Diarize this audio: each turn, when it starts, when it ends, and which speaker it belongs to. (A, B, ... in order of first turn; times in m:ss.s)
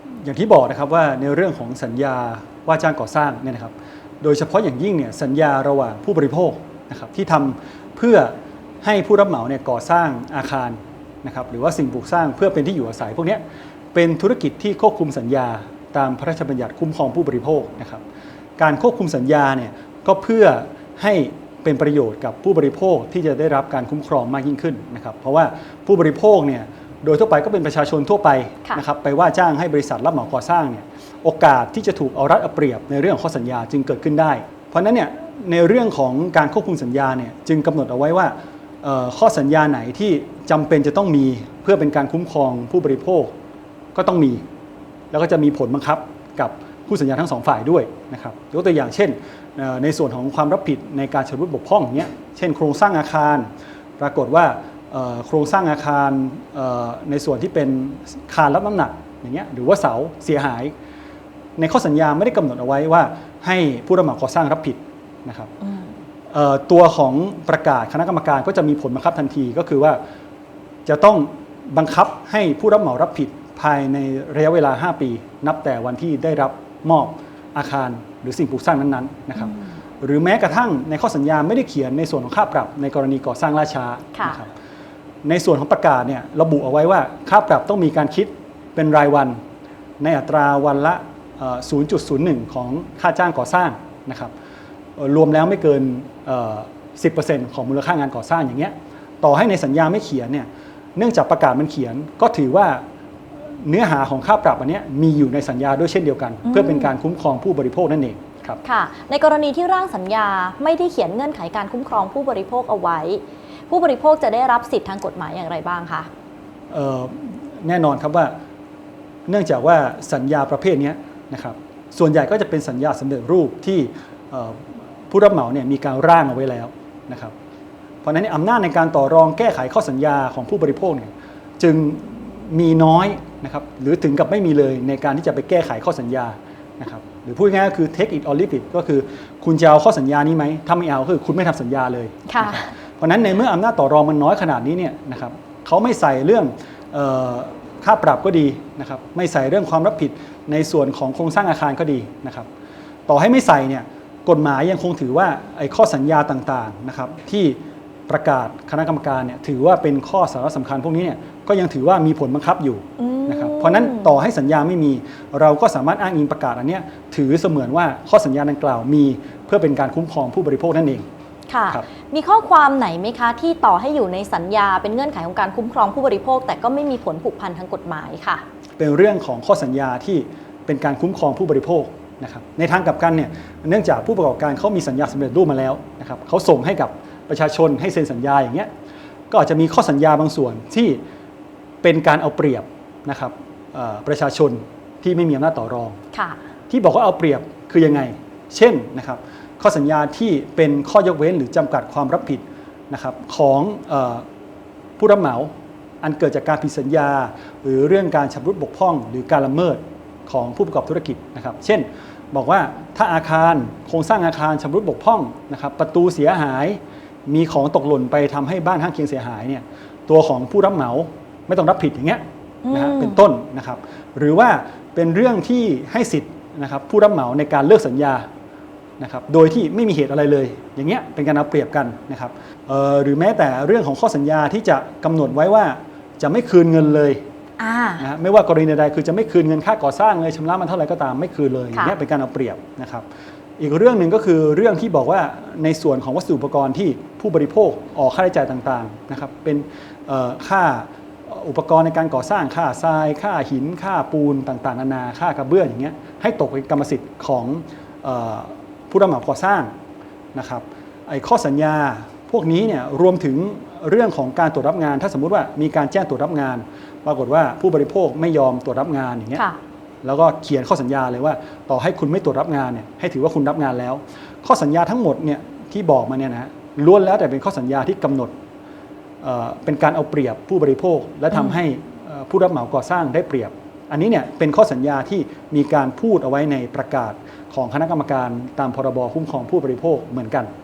0:00.2-0:13.4 A
0:13.9-0:18.0 A
0:18.6-0:43.3 A
0:44.0-0:44.4 A
0:45.1-0:53.5 A
0:54.0-1:00.7 A
1:01.6-1:05.5 A
1:06.3-1:10.0 A
1:10.9-1:24.5 A
1:25.2-1:29.4 A
1:30.0-1:34.3 A
1:35.0-1:42.8 A
1:43.6-1:48.6 A
1:46.5-1:46.9 B
1:48.6-1:56.1 B
1:56.7-1:58.4 A
1:59.3-2:07.3 A
2:08.0-2:32.5 A
2:22.3-2:22.7 B
2:33.1-2:51.1 A
2:43.0-2:44.2 B
2:51.5-2:58.4 B
2:58.8-3:08.7 A
3:09.3-3:11.0 A
3:11.8-3:16.0 A
3:16.1-3:16.4 B
3:16.7-3:24.2 A
3:25.0-3:25.5 A
3:26.0-3:48.3 A
3:42.6-3:43.2 B
3:49.0-3:57.2 A
3:57.6-3:58.0 B
3:58.0-4:03.0 A
4:03.6-4:19.7 A
4:20.4-4:29.4 A
4:30.0-4:38.3 A
4:39.2-4:50.5 A
4:41.3-4:41.6 B